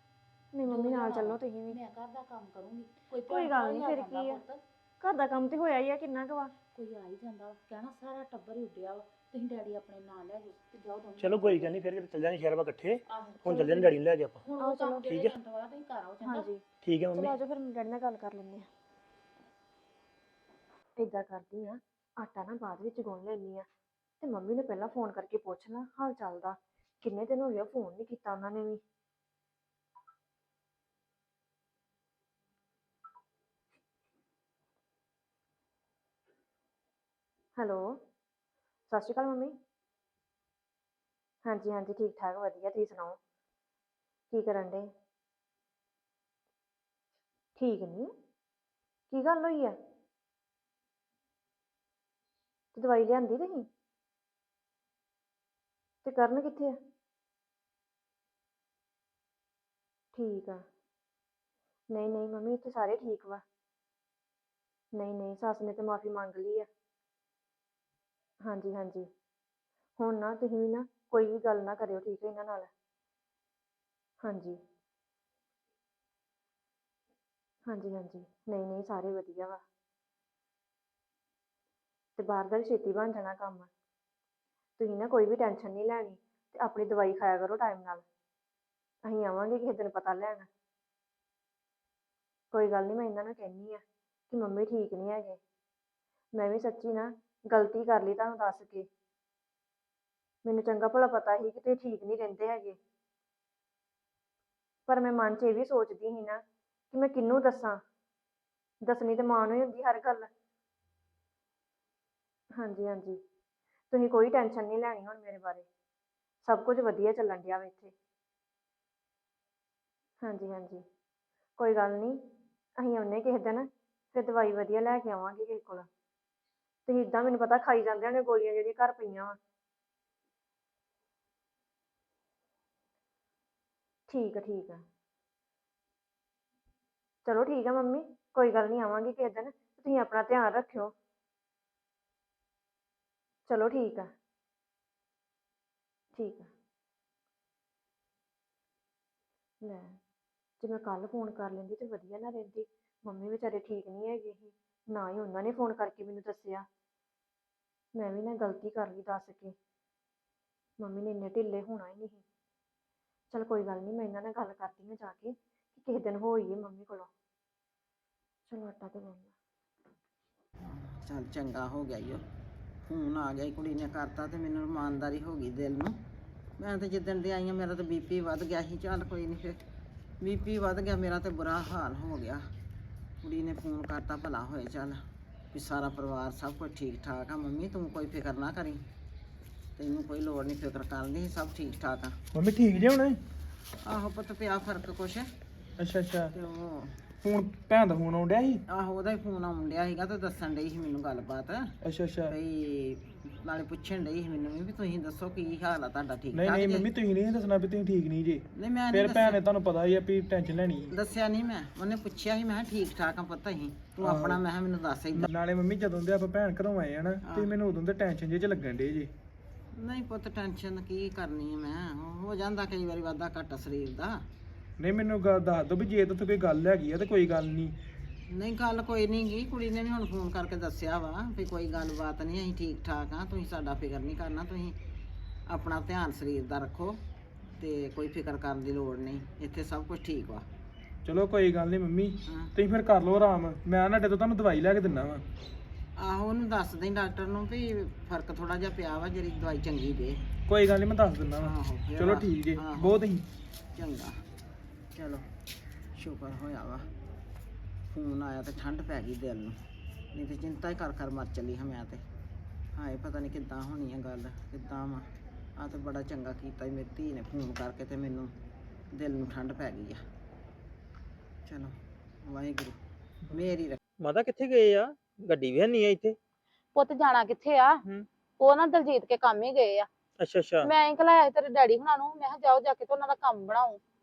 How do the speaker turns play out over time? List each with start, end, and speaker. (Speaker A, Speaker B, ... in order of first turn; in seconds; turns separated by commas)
Speaker A: 0.5-1.8, Speaker B: 0.7-4.6, Speaker A: 3.3-4.4, Speaker A: 5.0-6.5, Speaker B: 6.7-11.7, Speaker C: 11.2-11.9, Speaker D: 11.5-13.0, Speaker C: 12.8-14.0, Speaker B: 13.1-13.9, Speaker D: 13.8-14.4, Speaker B: 14.4-16.5, Speaker A: 14.6-15.1, Speaker A: 16.2-16.6, Speaker C: 16.8-17.3, Speaker A: 17.1-18.7, Speaker A: 21.0-23.7, Speaker A: 24.2-28.8, Speaker A: 37.6-38.0, Speaker A: 38.9-39.5, Speaker A: 41.4-43.2, Speaker A: 44.3-44.9, Speaker A: 47.6-48.1, Speaker A: 49.1-49.8, Speaker A: 52.7-53.7, Speaker A: 56.0-56.8, Speaker A: 60.1-60.6, Speaker A: 61.9-63.4, Speaker A: 65.0-66.7, Speaker A: 68.4-69.1, Speaker A: 70.0-72.7, Speaker A: 74.2-74.6, Speaker A: 77.7-79.6, Speaker A: 82.2-83.7, Speaker A: 84.8-88.0, Speaker A: 89.0-90.5, Speaker A: 92.5-95.4, Speaker A: 96.3-98.9, Speaker A: 100.4-102.8, Speaker A: 104.9-107.8, Speaker A: 108.8-110.3, Speaker A: 112.6-113.2, Speaker A: 113.9-115.7, Speaker A: 116.5-117.9, Speaker A: 120.2-120.8, Speaker A: 121.6-122.2, Speaker A: 122.8-125.9, Speaker A: 126.9-129.4, Speaker A: 134.1-134.8, Speaker A: 137.2-140.9, Speaker A: 143.5-144.1, Speaker A: 146.1-146.5, Speaker A: 149.6-150.0, Speaker A: 150.6-156.7, Speaker A: 158.0-159.5, Speaker A: 160.8-162.2, Speaker A: 163.3-167.1, Speaker A: 168.5-169.3, Speaker E: 170.6-172.2, Speaker E: 172.8-175.9, Speaker E: 176.6-179.6, Speaker E: 180.2-182.4, Speaker E: 183.2-188.8, Speaker E: 189.8-192.2, Speaker C: 192.3-193.2, Speaker E: 193.8-195.2, Speaker C: 195.8-196.3, Speaker E: 196.3-196.9, Speaker C: 197.2-198.6, Speaker E: 198.7-201.7, Speaker C: 201.8-202.3, Speaker E: 202.3-206.9, Speaker C: 206.3-210.9, Speaker E: 208.5-209.4, Speaker E: 210.9-215.3, Speaker C: 214.0-214.4, Speaker C: 215.1-219.1, Speaker E: 217.2-217.5, Speaker E: 219.8-224.2, Speaker C: 224.8-227.8, Speaker E: 228.3-234.8, Speaker E: 235.5-237.0, Speaker E: 237.5-240.5, Speaker C: 241.0-245.2, Speaker E: 242.2-242.5, Speaker E: 246.0-250.2, Speaker C: 250.5-253.2, Speaker E: 251.4-253.0, Speaker E: 253.8-254.2, Speaker E: 254.9-255.2, Speaker E: 255.9-256.9, Speaker E: 257.9-259.6, Speaker E: 260.1-262.0, Speaker E: 262.8-268.3, Speaker E: 268.9-270.0, Speaker E: 271.5-271.7, Speaker E: 272.2-272.8, Speaker E: 273.3-273.8, Speaker F: 274.0-276.1, Speaker B: 276.8-277.8, Speaker B: 278.4-279.9, Speaker F: 280.2-280.7, Speaker B: 280.6-283.8